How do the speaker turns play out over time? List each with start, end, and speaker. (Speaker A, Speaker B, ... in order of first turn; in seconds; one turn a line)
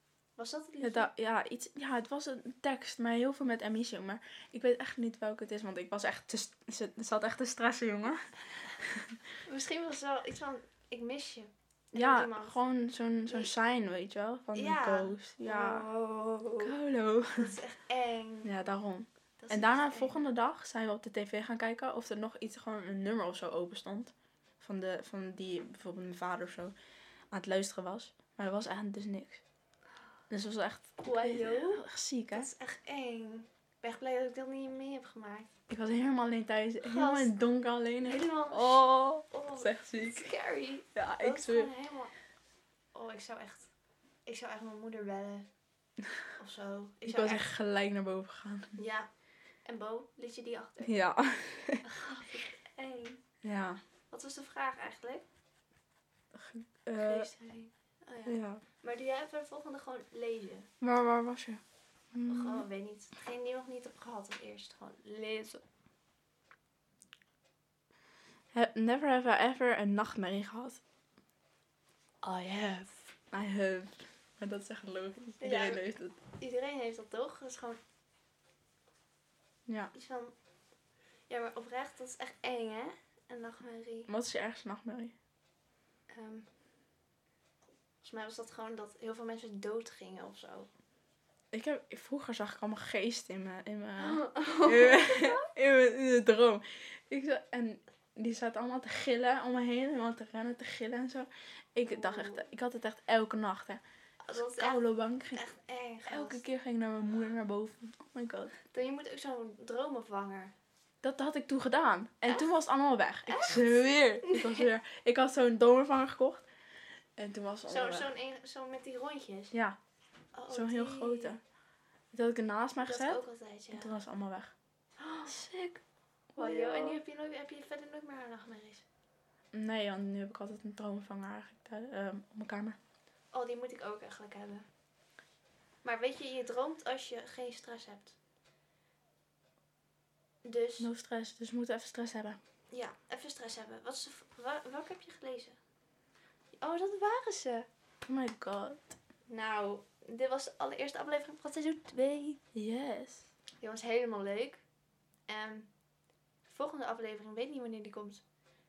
Speaker A: 0.4-1.1
Speaker B: 0.8-9.2
Speaker A: 9.4-12.6
Speaker B: 11.9-15.9
Speaker A: 13.2-13.5
Speaker A: 14.6-16.7
Speaker B: 16.6-17.6
Speaker A: 17.4-18.5
Speaker B: 18.4-26.7
Speaker A: 19.4-20.2
Speaker B: 27.3-29.4
Speaker B: 30.3-32.5
Speaker A: 31.0-35.5
Speaker B: 35.7-40.3
Speaker A: 36.8-37.3
Speaker A: 38.0-42.1
Speaker B: 40.9-41.7
Speaker A: 43.0-43.7
Speaker A: 44.3-45.5
Speaker A: 46.4-47.5
Speaker B: 47.1-48.8
Speaker A: 48.8-49.1
Speaker A: 49.6-50.9
Speaker B: 50.8-51.8
Speaker A: 51.8-53.2
Speaker B: 53.4-53.8
Speaker A: 54.1-55.2
Speaker B: 56.3-57.3
Speaker A: 57.0-60.7
Speaker B: 58.3-58.6
Speaker B: 60.8-61.6
Speaker B: 62.1-62.7
Speaker A: 62.3-65.6
Speaker B: 68.5-70.8
Speaker A: 72.2-73.1
Speaker B: 73.3-76.2
Speaker A: 75.4-75.8
Speaker A: 76.4-77.8
Speaker B: 79.7-79.9
Speaker A: 79.9-80.3
Speaker A: 81.3-84.1
Speaker B: 84.1-85.1
Speaker A: 86.1-86.5
Speaker A: 88.0-90.7
Speaker B: 91.5-103.8
Speaker A: 94.0-95.5
Speaker A: 101.8-102.5
Speaker A: 104.2-106.4
Speaker B: 104.3-105.4
Speaker B: 106.0-108.5
Speaker A: 108.7-110.5
Speaker B: 111.0-116.5
Speaker A: 113.3-114.7
Speaker B: 117.2-118.1
Speaker A: 117.7-119.5
Speaker B: 119.5-119.8
Speaker A: 120.3-121.4
Speaker B: 120.5-121.4
Speaker B: 122.1-123.2
Speaker A: 122.8-123.9
Speaker B: 123.7-124.5
Speaker A: 125.0-125.8
Speaker B: 126.3-127.0
Speaker A: 126.4-128.8
Speaker B: 129.5-132.8
Speaker A: 133.3-134.7
Speaker A: 135.8-138.2
Speaker A: 140.4-140.9
Speaker B: 140.8-142.4
Speaker A: 142.7-145.6
Speaker A: 146.6-147.7
Speaker B: 148.0-149.0
Speaker A: 149.3-152.4
Speaker B: 152.6-153.3
Speaker A: 153.6-154.6
Speaker A: 155.3-155.7
Speaker A: 156.4-158.2